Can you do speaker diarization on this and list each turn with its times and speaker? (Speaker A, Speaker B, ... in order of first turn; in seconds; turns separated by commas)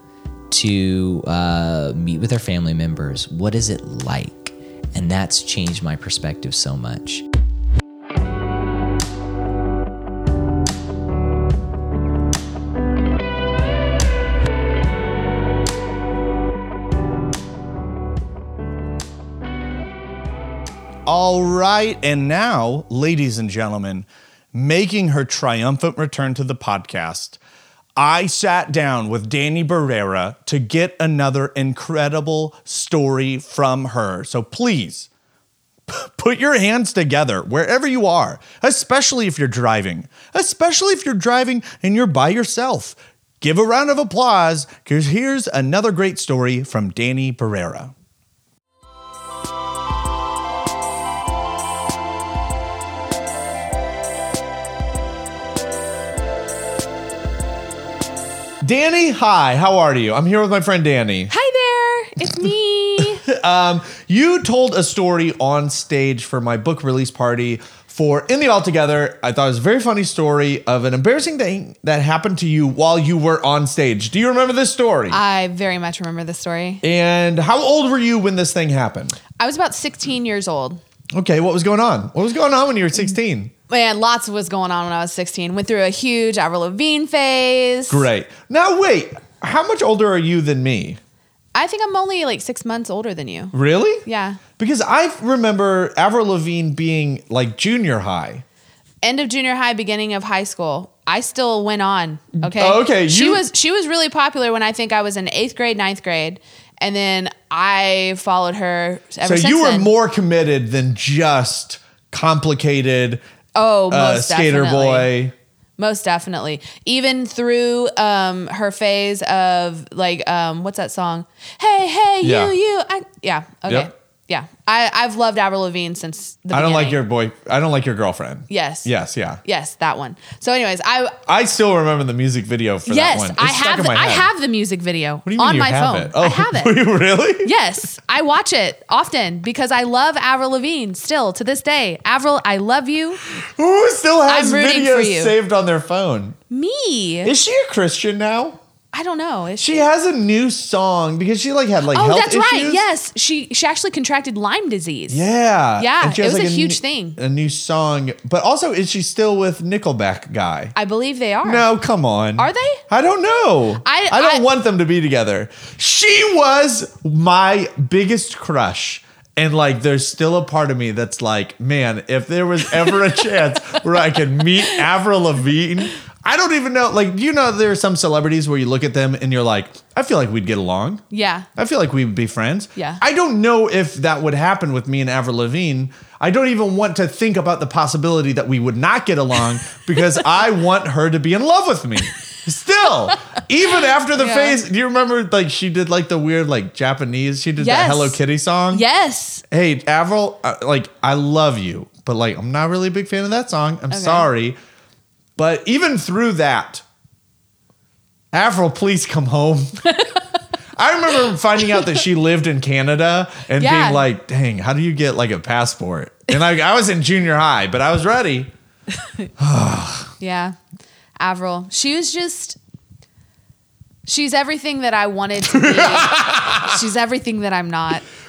Speaker A: 0.5-7.2, Speaker B: 21.1-27.4, Speaker B: 28.0-35.1, Speaker B: 35.9-47.9, Speaker B: 58.6-61.3, Speaker C: 61.3-63.2, Speaker B: 63.1-75.2, Speaker C: 75.1-76.8, Speaker B: 76.8-79.2, Speaker C: 79.4-80.8, Speaker B: 81.1-83.5, Speaker C: 83.7-88.1, Speaker B: 87.9-91.0, Speaker C: 91.5-93.5, Speaker B: 93.5-94.0, Speaker C: 94.0-94.4, Speaker B: 94.6-98.4, Speaker C: 99.0-109.9, Speaker B: 102.4-103.4, Speaker B: 109.2-113.2, Speaker C: 113.5-115.1, Speaker B: 113.9-115.3, Speaker C: 115.8-127.0, Speaker B: 122.2-122.5, Speaker B: 126.5-129.4, Speaker C: 128.5-128.9, Speaker C: 129.4-131.2, Speaker B: 131.3-134.3, Speaker C: 132.9-136.8, Speaker B: 135.2-137.5, Speaker C: 137.4-143.2, Speaker B: 143.4-146.4, Speaker C: 144.3-145.3, Speaker C: 146.5-147.3, Speaker B: 147.2-148.6, Speaker C: 148.9-149.9, Speaker B: 149.6-152.8, Speaker C: 151.9-155.2, Speaker B: 155.1-160.7, Speaker C: 155.8-157.2, Speaker C: 160.8-161.7, Speaker B: 161.4-181.0, Speaker C: 162.4-162.8, Speaker C: 163.8-164.4, Speaker C: 181.1-181.5, Speaker B: 181.6-198.8, Speaker C: 182.8-183.0, Speaker C: 194.2-194.6, Speaker C: 197.6-198.2, Speaker C: 198.7-199.4, Speaker B: 199.5-204.6, Speaker C: 203.9-204.3, Speaker B: 205.4-206.8, Speaker B: 208.3-209.8, Speaker C: 209.9-210.2, Speaker B: 210.8-218.5, Speaker C: 213.6-214.1, Speaker B: 219.4-220.1, Speaker C: 220.2-220.6, Speaker C: 221.2-222.6, Speaker C: 224.1-228.1, Speaker B: 225.5-226.8